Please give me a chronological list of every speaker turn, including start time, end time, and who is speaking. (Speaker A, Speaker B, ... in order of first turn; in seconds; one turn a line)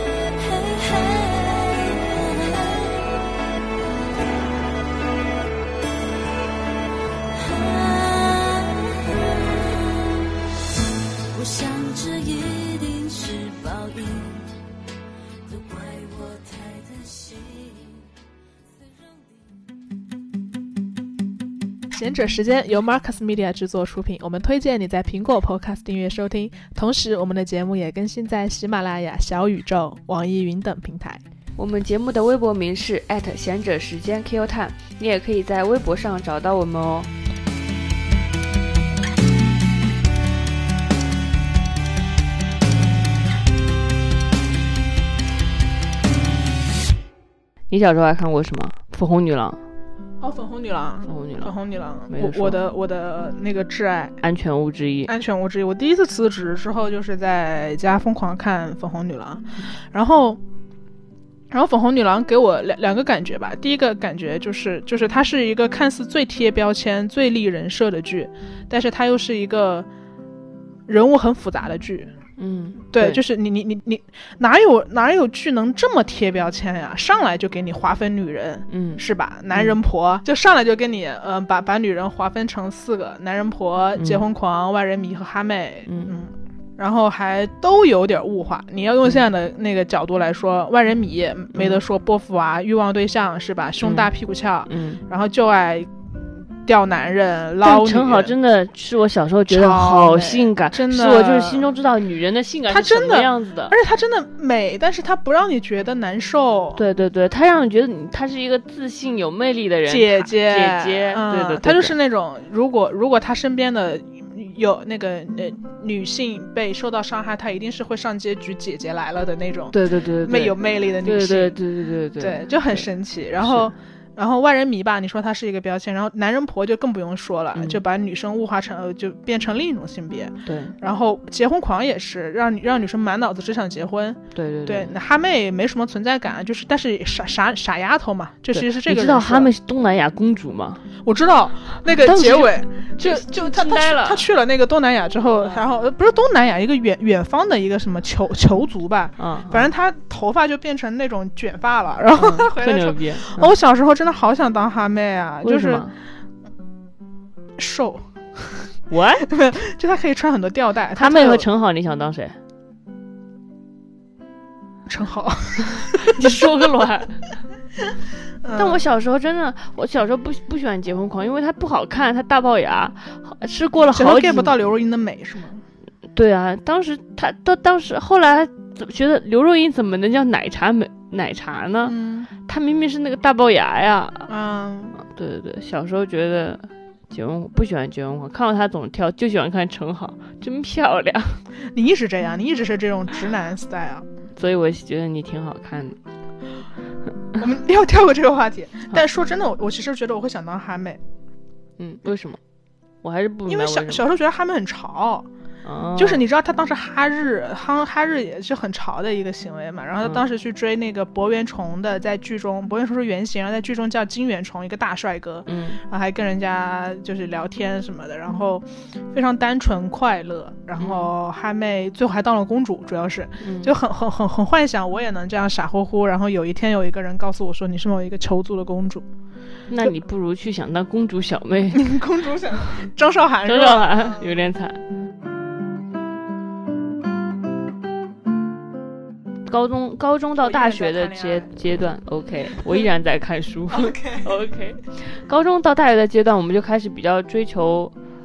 Speaker A: 0.3-3.3
Speaker A: 7.3-10.0
Speaker A: 11.3-14.5
Speaker A: 15.4-18.0
Speaker B: 21.9-31.2
Speaker C: 31.6-37.1
Speaker C: 47.7-49.6
Speaker B: 50.2-54.2
Speaker C: 51.1-51.5
Speaker C: 52.1-52.6
Speaker C: 54.2-55.1
Speaker B: 55.1-60.4
Speaker B: 61.5-69.9
Speaker B: 70.9-72.1
Speaker C: 72.4-73.2
Speaker B: 72.9-95.9
Speaker C: 78.7-79.0
Speaker C: 84.0-84.2
Speaker C: 85.9-86.1
Speaker C: 91.5-91.8
Speaker C: 93.8-94.1
Speaker C: 94.7-95.0
Speaker B: 96.6-98.3
Speaker C: 97.6-103.7
Speaker B: 99.5-101.7
Speaker B: 102.7-106.8
Speaker C: 106.7-111.9
Speaker B: 109.9-121.6
Speaker C: 119.7-122.9
Speaker B: 122.2-139.5
Speaker C: 123.4-123.7
Speaker C: 127.5-127.8
Speaker C: 130.4-130.7
Speaker C: 134.3-134.9
Speaker C: 138.5-140.8
Speaker B: 141.1-155.9
Speaker C: 142.0-144.2
Speaker C: 149.2-149.7
Speaker C: 152.2-153.5
Speaker C: 155.4-155.9
Speaker B: 157.6-158.6
Speaker C: 158.9-159.3
Speaker B: 159.3-161.5
Speaker C: 160.9-162.4
Speaker B: 164.9-166.4
Speaker C: 165.8-167.2
Speaker B: 168.4-168.8
Speaker C: 168.5-174.7
Speaker B: 173.9-175.6
Speaker C: 176.1-181.9
Speaker B: 181.9-182.3
Speaker C: 182.4-184.3
Speaker B: 184.3-185.0
Speaker C: 185.0-191.4
Speaker B: 191.7-194.1
Speaker C: 194.4-196.0
Speaker B: 197.3-201.0
Speaker C: 201.8-202.4
Speaker C: 203.0-204.1
Speaker B: 203.5-205.3
Speaker C: 205.6-206.2
Speaker B: 205.9-229.1
Speaker C: 215.5-215.8
Speaker C: 220.8-221.1
Speaker C: 223.4-223.7
Speaker C: 229.7-231.9
Speaker B: 231.7-234.2
Speaker C: 233.4-234.8
Speaker C: 239.5-247.9
Speaker B: 240.4-241.5
Speaker B: 243.7-244.3